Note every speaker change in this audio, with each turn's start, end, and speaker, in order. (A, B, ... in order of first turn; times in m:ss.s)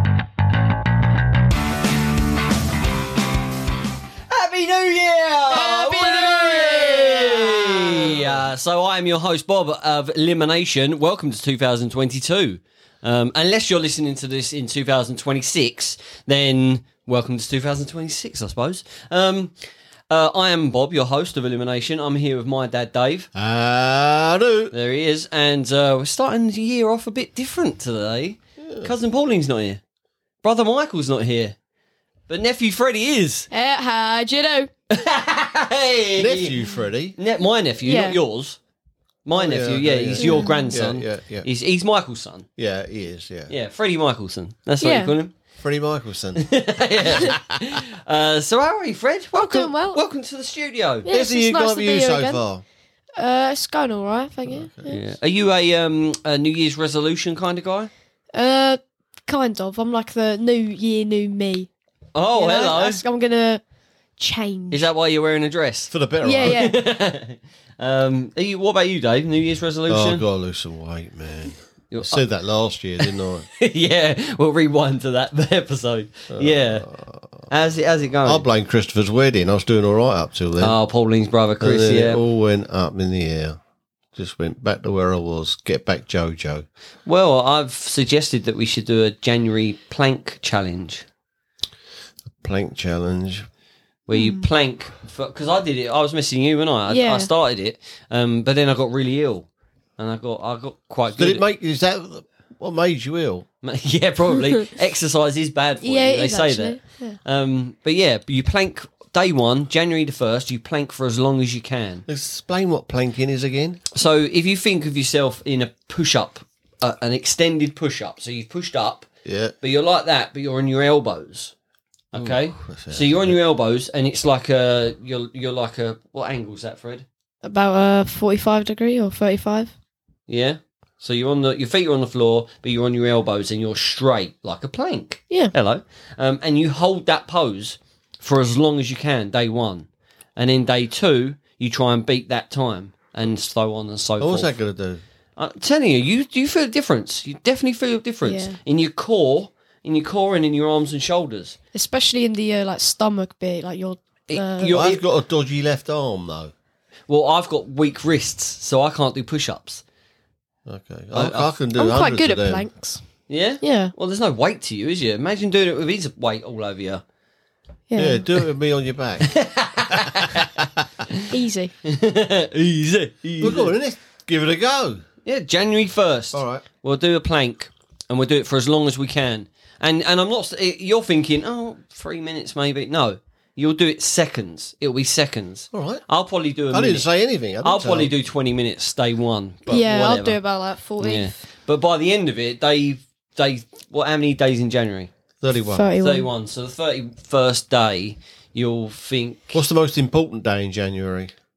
0:04.3-0:19.5 A
0:05.7-0:06.0 B
0:06.2-0:08.4 C
0:20.1-0:23.3 A
0:23.4-0:24.7 C
0:24.7-0:29.8 A
0:28.6-0:28.9 C
0:30.4-0:31.6 A
0:32.3-0:33.5 A
0:33.5-0:34.7 B
0:34.9-0:36.6 A
0:36.2-0:37.2 C
0:37.2-0:38.6 A
0:37.8-0:38.2 B
0:39.2-0:42.5 A
0:39.3-0:41.5 C
0:40.2-0:40.7 B
0:42.6-0:43.5 C
0:43.5-0:45.4 A
0:44.8-0:45.1 B
0:45.6-0:47.8 C
0:46.4-0:51.1 A
0:49.3-0:50.0 B
0:51.1-0:52.4 B
0:51.1-0:52.6 C
0:53.2-0:55.0 B
0:54.5-0:54.9 C
0:54.9-0:57.9 A
0:58.3-1:01.7 B
1:02.1-1:03.0 A
1:02.3-1:03.6 B
1:04.2-1:04.9 B
1:04.7-1:10.2 A
1:05.9-1:06.7 C
1:06.2-1:06.8 B
1:09.9-1:13.5 C
1:11.9-1:12.2 A
1:13.0-1:16.9 A
1:16.3-1:17.5 C
1:17.5-1:18.4 A
1:18.2-1:20.8 C
1:20.6-1:22.2 A
1:21.6-1:23.6 C
1:24.2-1:26.7 C
1:27.1-1:31.0 A
1:32.4-1:33.5 C
1:34.1-1:39.5 A
1:34.1-1:34.5 B
1:36.9-1:37.3 B
1:40.0-1:41.4 A
1:41.2-1:43.5 C
1:43.6-1:52.1 A
1:45.8-1:47.2 B
1:52.1-1:53.8 C
1:53.9-1:59.1 A
1:59.2-1:59.5 C
1:59.6-2:01.5 A
2:02.1-2:07.1 A
2:02.1-2:03.4 C
2:07.4-2:09.7 B
2:10.3-2:24.6 A
2:24.2-2:25.0 C
2:25.4-2:31.6 A
2:28.2-2:28.6 B
2:31.7-2:34.7 B
2:34.3-2:35.0 A
2:34.7-2:36.5 C
2:37.1-2:39.8 A
2:40.7-2:42.6 C
2:41.1-2:41.5 A
2:41.8-2:43.0 B
2:43.3-2:47.0 A
2:43.6-2:43.9 B
2:47.9-2:48.3 B
2:48.0-2:49.4 C
2:49.2-2:51.2 A
2:49.9-2:50.5 C
2:51.3-2:51.7 B
2:51.8-2:53.7 A
2:53.4-2:55.0 C
2:55.2-3:07.1 A
2:56.3-2:56.6 C
3:05.7-3:06.0 C
3:06.7-3:08.1 C
3:07.6-3:10.4 A
3:09.7-3:11.4 B
3:11.0-3:15.1 A
3:15.4-3:15.9 C
3:15.7-3:16.3 B
3:16.0-3:19.6 A
3:19.5-3:21.3 C